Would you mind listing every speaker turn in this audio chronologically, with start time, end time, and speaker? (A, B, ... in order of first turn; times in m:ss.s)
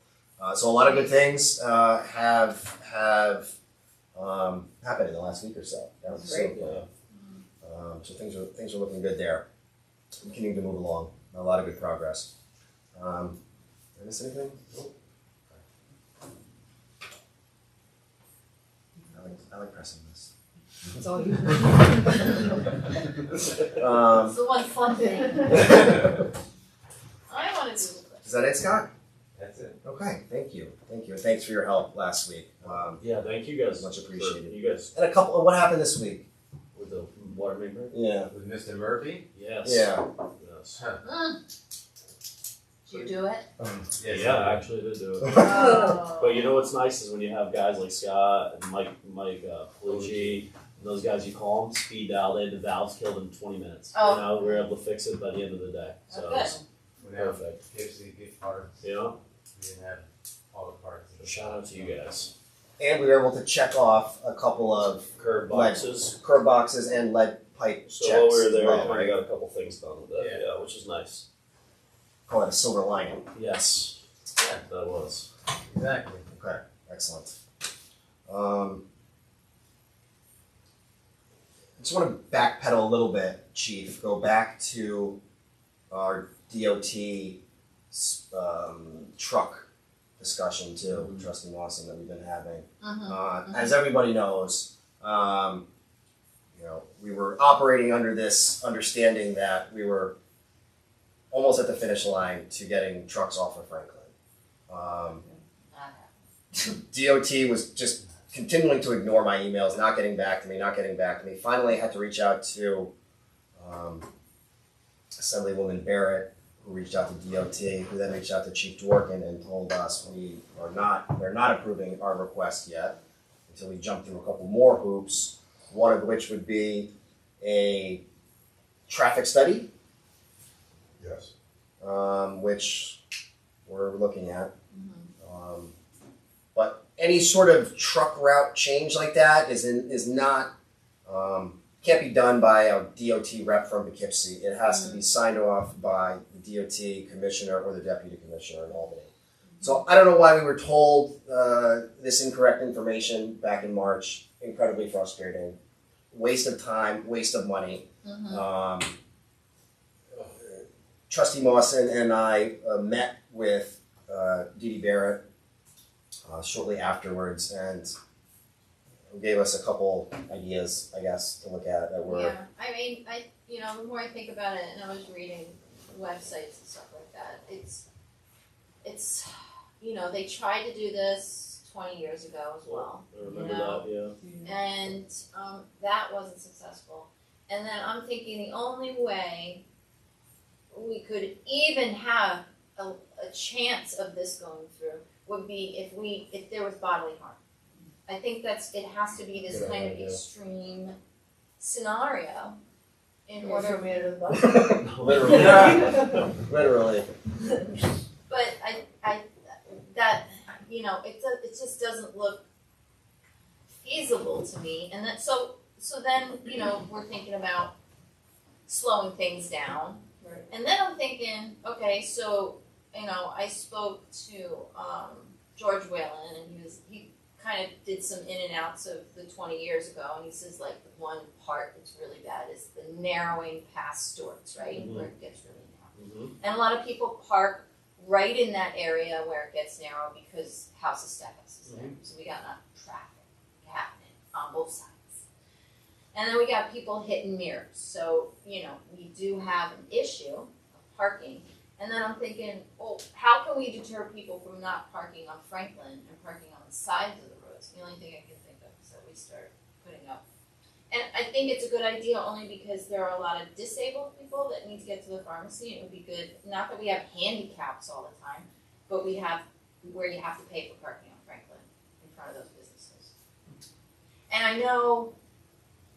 0:00.4-0:03.5 A
0:00.8-0:01.1 B
0:04.1-0:06.8 A
0:06.3-0:06.8 C
0:07.6-0:09.4 A
0:10.2-0:12.3 A
0:12.9-0:13.4 A
0:14.0-0:14.7 A
0:19.1-0:20.3 A
0:21.0-0:22.3 D
0:23.7-0:24.4 A
0:24.2-0:25.9 B
0:25.5-0:26.0 A
0:27.3-0:28.4 B
0:28.2-0:28.9 A
0:29.3-0:29.8 E
0:29.8-0:33.0 A
0:33.0-0:34.9 C
0:33.8-0:36.3 A
0:36.7-0:37.9 C
0:37.9-0:38.3 A
0:38.3-0:39.3 E
0:39.3-0:40.8 C
0:39.6-0:40.0 A
0:40.8-0:41.0 E
0:41.0-0:41.4 B
0:42.8-0:43.5 B
0:43.9-0:44.6 E
0:44.0-0:56.6 C
0:45.3-0:46.6 B
0:49.9-0:50.4 E
0:53.9-0:54.5 B
0:56.1-0:56.6 B
0:57.0-0:58.8 E
0:57.1-0:57.6 C
0:58.8-0:59.2 C
0:59.5-1:02.0 E
1:01.2-1:02.3 C
1:02.8-1:09.2 A
1:05.2-1:06.1 C
1:07.8-1:11.2 C
1:10.1-1:10.4 E
1:12.3-1:13.3 A
1:13.3-1:15.3 C
1:15.7-1:16.2 E
1:16.3-1:17.3 A
1:18.3-1:18.8 A
1:21.8-1:25.2 A
1:25.9-1:27.4 A
1:27.9-1:29.7 A
1:30.2-1:35.6 A
1:30.9-1:31.2 C
1:32.8-1:33.7 B
1:36.5-1:40.1 A
1:41.3-1:44.1 A
1:44.7-1:45.2 A
1:45.7-1:46.1 B
1:46.9-1:52.9 A
1:53.6-1:54.1 A
1:55.2-2:03.0 A
2:03.5-2:06.9 A
2:07.4-2:08.0 A
2:08.9-2:09.7 A
2:11.0-2:11.3 E
2:11.8-2:13.0 A
2:13.6-2:14.5 A
2:14.7-2:15.1 B
2:15.2-2:15.7 A
2:16.5-2:20.5 A
2:21.0-2:29.1 A
2:24.7-2:25.0 B
2:29.6-2:35.6 A
2:36.1-2:38.9 A
2:38.0-2:38.4 B
2:40.1-2:45.2 A
2:46.3-2:47.9 A
2:49.1-2:52.3 A
2:52.1-2:57.8 B
2:58.8-3:03.8 B
3:02.6-3:04.1 C
3:03.2-3:03.5 D
3:04.2-3:04.5 D
3:04.4-3:09.6 B
3:10.7-3:17.4 B
3:18.1-3:21.0 B
3:19.5-3:20.1 A
3:21.6-3:22.6 B
3:23.3-3:24.1 B
3:23.4-3:24.6 D
3:24.3-3:27.0 A
3:24.6-3:26.3 C
3:25.3-3:25.7 E
3:25.6-3:26.0 D
3:28.3-3:32.4 B
3:33.8-3:37.7 B
3:38.7-4:05.2 B
3:54.7-3:55.1 C
3:56.0-3:56.3 C
4:01.7-4:01.9 C
4:06.1-4:20.2 B
4:20.9-4:33.1 B
4:34.3-4:35.1 B